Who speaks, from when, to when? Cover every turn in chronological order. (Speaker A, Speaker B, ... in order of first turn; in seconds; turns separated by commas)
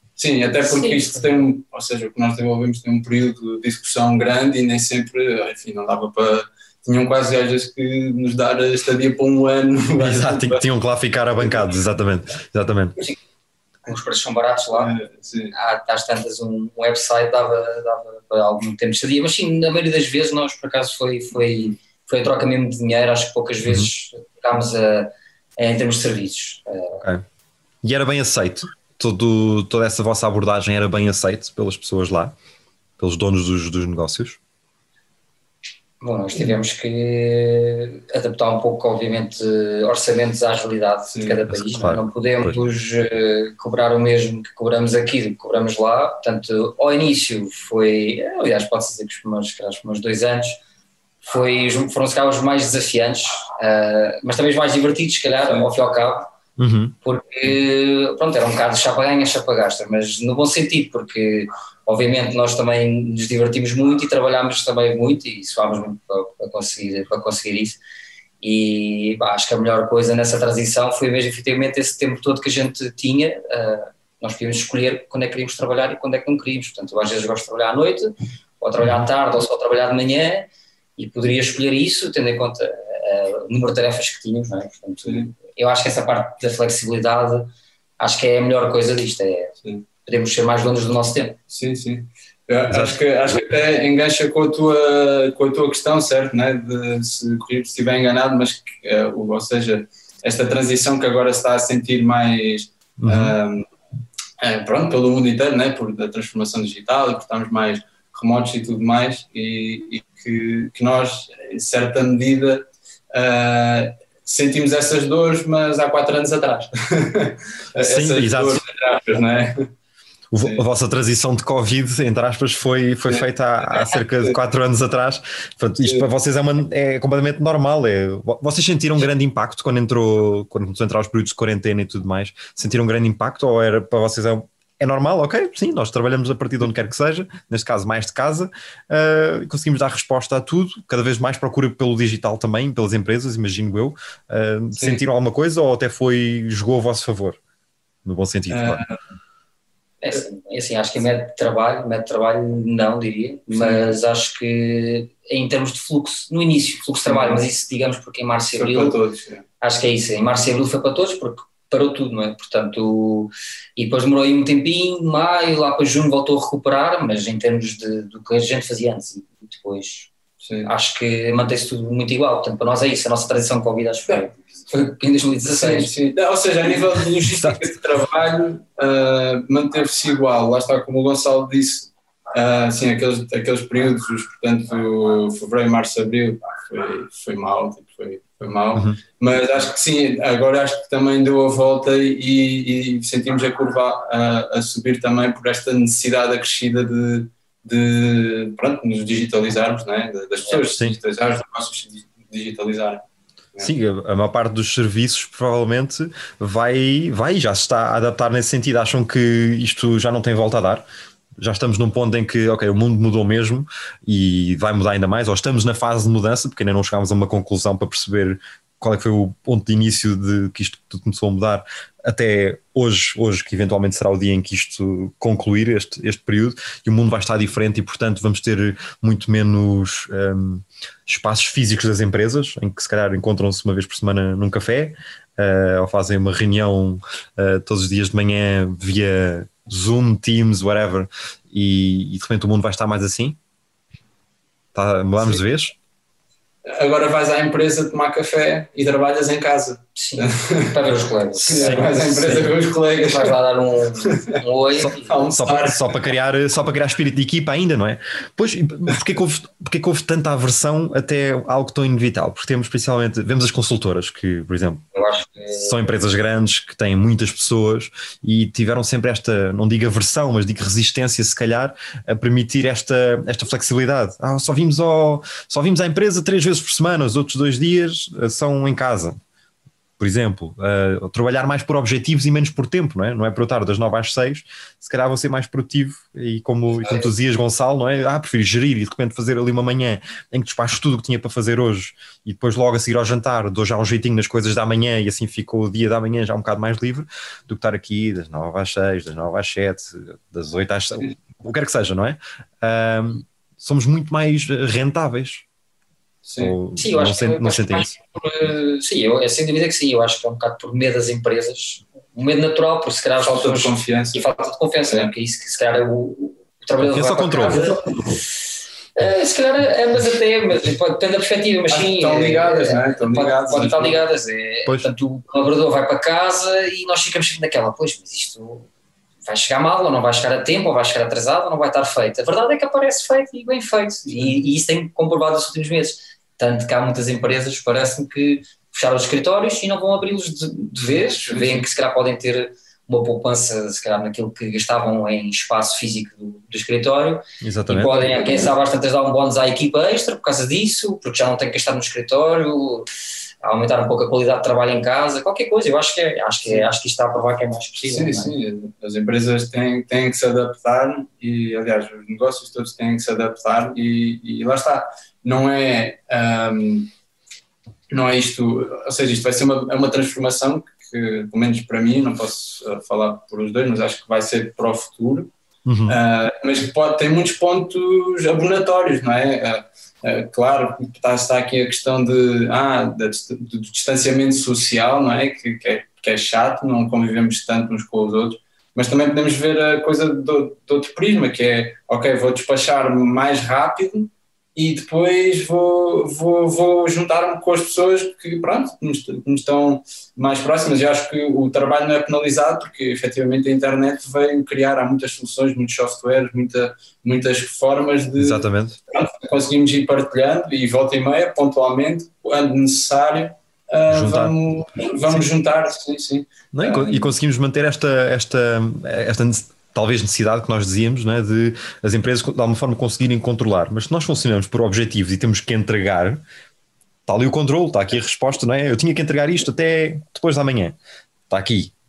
Speaker A: 0.2-10.7, Speaker B: 0.7-1.2, Speaker C: 10.0-13.0, Speaker B: 13.8-14.9, Speaker A: 14.7-15.5, Speaker B: 15.5-27.0, Speaker C: 27.0-27.2, Speaker C: 27.8-32.3, Speaker C: 33.0-34.4, Speaker B: 36.0-50.6, Speaker A: 41.1-41.4, Speaker C: 41.5-42.6, Speaker B: 51.2-56.3, Speaker C: 56.6-57.0, Speaker B: 57.0-67.8, Speaker B: 68.4-89.5, Speaker A: 85.0-85.3, Speaker B: 90.0-91.4, Speaker A: 91.5-103.7, Speaker C: 92.7-93.0, Speaker C: 103.0-103.4, Speaker A: 104.4-119.7, Speaker C: 117.8-118.6, Speaker C: 120.3-147.4, Speaker A: 123.1-124.4, Speaker A: 144.8-145.0, Speaker C: 148.0-148.8, Speaker A: 148.5-148.9, Speaker B: 150.0-158.9, Speaker A: 153.5-153.8, Speaker A: 157.1-157.4, Speaker A: 158.5-159.4, Speaker B: 159.6-170.1, Speaker A: 170.4-170.7, Speaker B: 170.6-175.9, Speaker A: 175.4-203.0, Speaker C: 177.3-177.7, Speaker C: 188.7-189.0, Speaker C: 203.6-210.8, Speaker C: 211.4-243.4, Speaker C: 244.7-245.8, Speaker A: 246.7-250.8, Speaker B: 249.9-252.4, Speaker C: 251.4-252.5, Speaker A: 251.5-253.3, Speaker B: 252.9-255.1, Speaker C: 254.8-264.8, Speaker A: 255.1-255.9, Speaker B: 264.9-265.7, Speaker C: 265.5-279.2, Speaker C: 280.0-305.4, Speaker A: 306.2-306.5, Speaker C: 306.4-307.9, Speaker B: 306.8-317.8, Speaker A: 313.2-314.3, Speaker C: 316.8-317.7, Speaker B: 318.9-328.7, Speaker A: 321.7-324.0, Speaker B: 329.2-352.9, Speaker A: 341.0-341.6, Speaker C: 347.4-348.1, Speaker B: 353.4-358.3, Speaker A: 357.8-366.9, Speaker A: 367.9-375.3, Speaker C: 375.6-376.0, Speaker A: 375.9-417.1, Speaker C: 408.2-408.8, Speaker C: 413.9-414.4, Speaker C: 416.5-426.2, Speaker C: 427.1-430.8, Speaker C: 431.3-431.7